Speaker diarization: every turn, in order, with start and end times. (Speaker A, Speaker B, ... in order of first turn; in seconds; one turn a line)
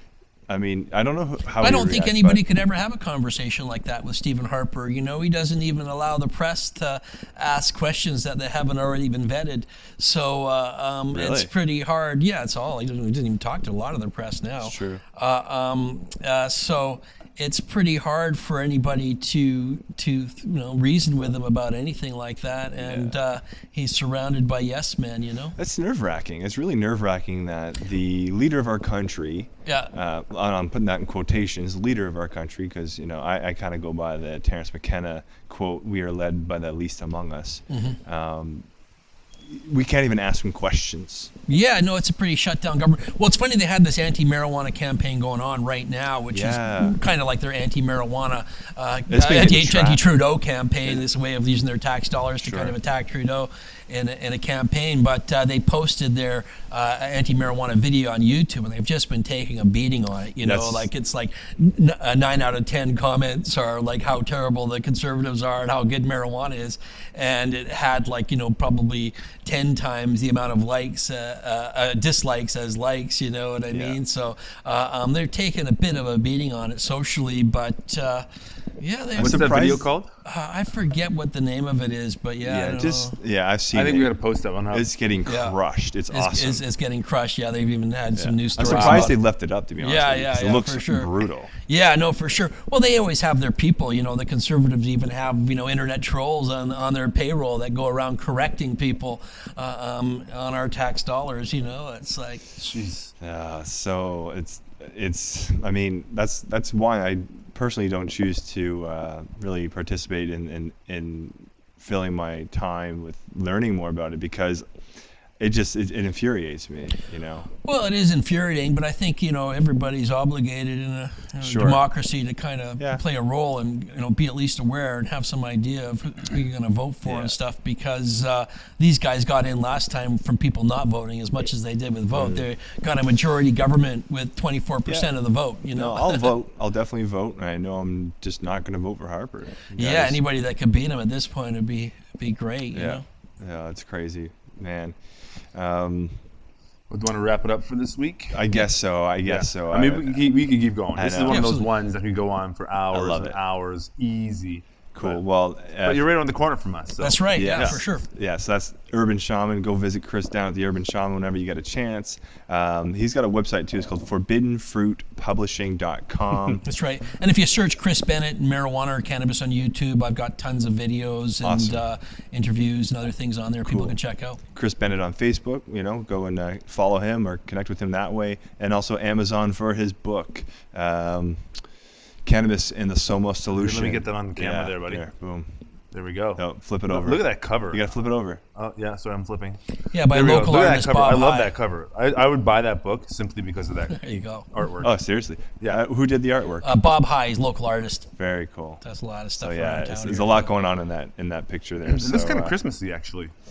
Speaker A: 0.5-2.4
Speaker B: 1.6-25.6
Speaker A: 11.1-11.5
Speaker A: 14.6-15.0
Speaker A: 22.8-23.2
Speaker A: 25.6-38.6
Speaker B: 29.6-29.9
Speaker B: 37.7-38.0
Speaker A: 39.4-41.3
Speaker B: 41.5-78.3
Speaker A: 46.3-47.0
Speaker A: 49.1-50.0
Speaker A: 52.4-52.7
Speaker A: 60.4-60.9
Speaker A: 73.7-74.0
Speaker B: 78.8-83.2
Speaker A: 79.2-79.8
Speaker C: 79.2-80.1
Speaker A: 82.4-84.1
Speaker C: 83.7-84.9
Speaker A: 84.7-86.6
Speaker B: 85.2-85.5
Speaker B: 86.1-89.2
Speaker A: 88.2-91.5
Speaker C: 88.6-89.1
Speaker B: 89.8-102.7
Speaker C: 102.6-103.1
Speaker A: 103.2-114.7
Speaker A: 115.4-117.5
Speaker B: 117.6-136.3
Speaker A: 121.4-121.8
Speaker A: 127.0-127.3
Speaker A: 132.1-132.4
Speaker A: 134.8-135.1
Speaker A: 135.7-140.2
Speaker B: 139.8-143.0
Speaker A: 142.7-146.2
Speaker C: 146.9-148.6
Speaker A: 148.3-150.2
Speaker C: 149.2-157.8
Speaker A: 150.9-151.5
Speaker B: 151.3-151.7
Speaker A: 152.9-153.4
Speaker A: 154.9-156.1
Speaker B: 157.0-158.1
Speaker A: 157.3-166.6
Speaker B: 166.6-174.4
Speaker A: 171.4-171.8
Speaker A: 173.7-174.0
Speaker A: 174.5-181.6
Speaker A: 182.2-185.5
Speaker C: 183.5-185.0
Speaker C: 185.9-187.9
Speaker A: 186.3-188.4
Speaker C: 188.5-195.8
Speaker B: 189.9-191.5
Speaker B: 193.9-194.5
Speaker A: 194.8-196.7
Speaker B: 196.6-198.1
Speaker A: 198.2-198.8
Speaker B: 198.8-200.5
Speaker A: 199.4-202.5
Speaker C: 202.0-203.3